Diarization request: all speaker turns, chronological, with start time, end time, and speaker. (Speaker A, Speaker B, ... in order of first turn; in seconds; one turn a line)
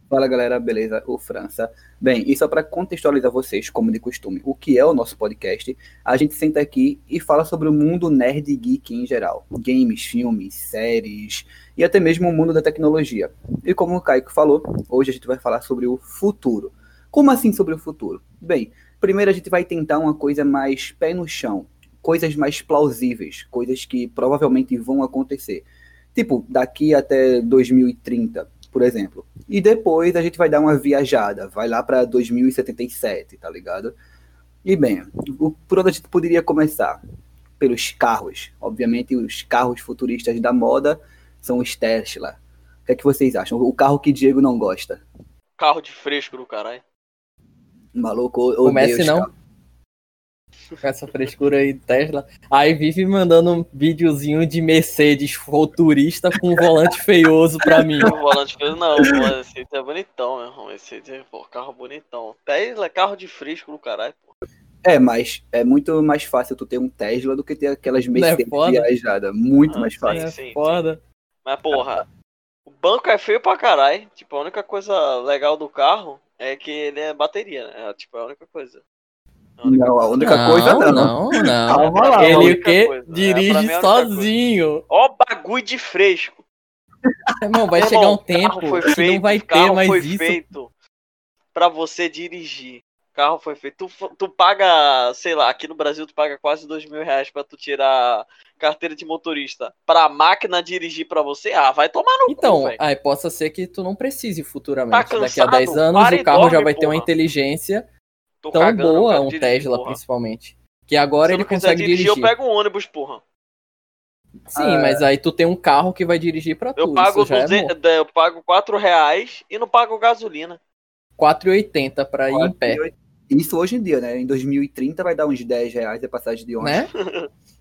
Speaker A: 0.1-34.0
Speaker A: 34.6-37.0
Speaker A: 37.6-45.0
Speaker B: 45.6-46.8
Speaker A: 48.0-49.3
Speaker C: 48.6-49.3
Speaker C: 50.8-58.1
Speaker A: 57.7-58.4
Speaker B: 58.0-64.3
Speaker A: 59.0-59.3
Speaker A: 64.8-70.2
Speaker C: 68.1-68.9
Speaker B: 69.7-70.8
Speaker C: 70.1-71.0
Speaker B: 71.5-72.1
Speaker B: 72.7-78.8
Speaker B: 79.6-81.1
Speaker A: 79.7-82.6
Speaker C: 80.2-84.8
Speaker B: 81.7-84.3
Speaker B: 84.9-86.4
Speaker C: 87.4-90.5
Speaker B: 87.8-90.7
Speaker B: 91.5-102.8
Speaker C: 102.3-107.9
Speaker B: 104.9-107.1
Speaker B: 108.4-110.0
Speaker C: 108.5-112.3
Speaker B: 111.2-113.2
Speaker C: 114.5-117.7
Speaker A: 114.5-115.0
Speaker B: 116.8-120.6
Speaker C: 121.2-122.8
Speaker A: 122.3-126.9
Speaker C: 126.6-126.9
Speaker B: 126.9-127.3